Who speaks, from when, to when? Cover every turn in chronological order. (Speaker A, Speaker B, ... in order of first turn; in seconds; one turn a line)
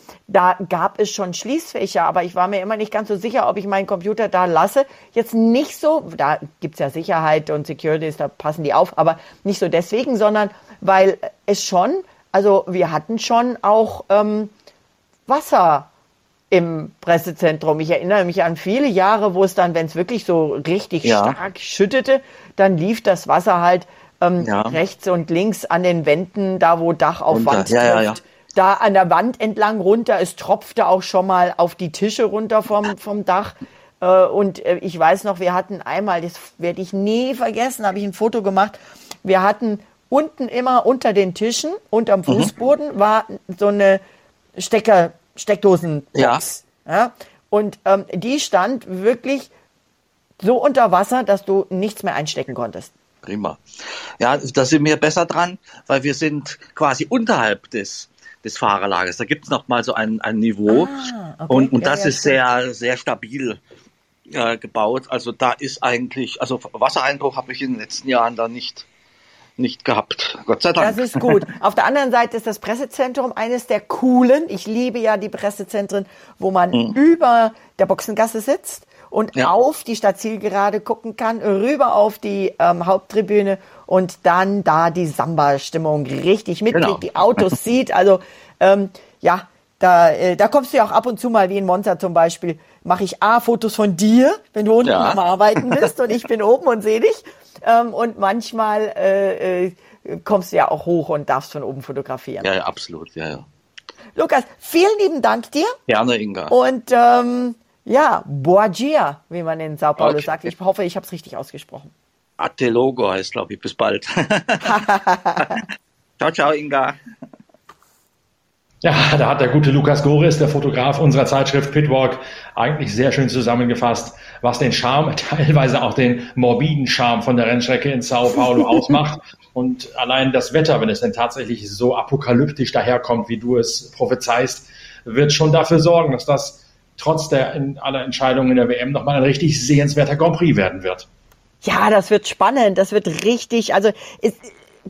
Speaker A: 0.3-14.5
Speaker A: 15.3-15.9
Speaker A: 16.5-44.0
Speaker B: 21.0-21.4
Speaker B: 24.4-24.8
Speaker B: 27.3-28.2
Speaker A: 44.6-49.5
Speaker B: 46.2-46.4
Speaker A: 50.4-52.9
Speaker B: 53.2-53.6
Speaker B: 54.2-63.6
Speaker A: 60.7-62.4
Speaker B: 64.3-68.9
Speaker B: 69.6-71.3
Speaker A: 70.8-102.5
Speaker B: 86.7-87.4
Speaker B: 94.8-95.9
Speaker B: 102.4-103.5
Speaker A: 104.2-105.8
Speaker B: 105.9-106.5
Speaker A: 106.5-111.9
Speaker B: 110.0-110.4
Speaker B: 112.4-114.8
Speaker A: 114.7-115.5
Speaker B: 116.2-117.0
Speaker C: 118.8-141.1
Speaker A: 141.6-144.5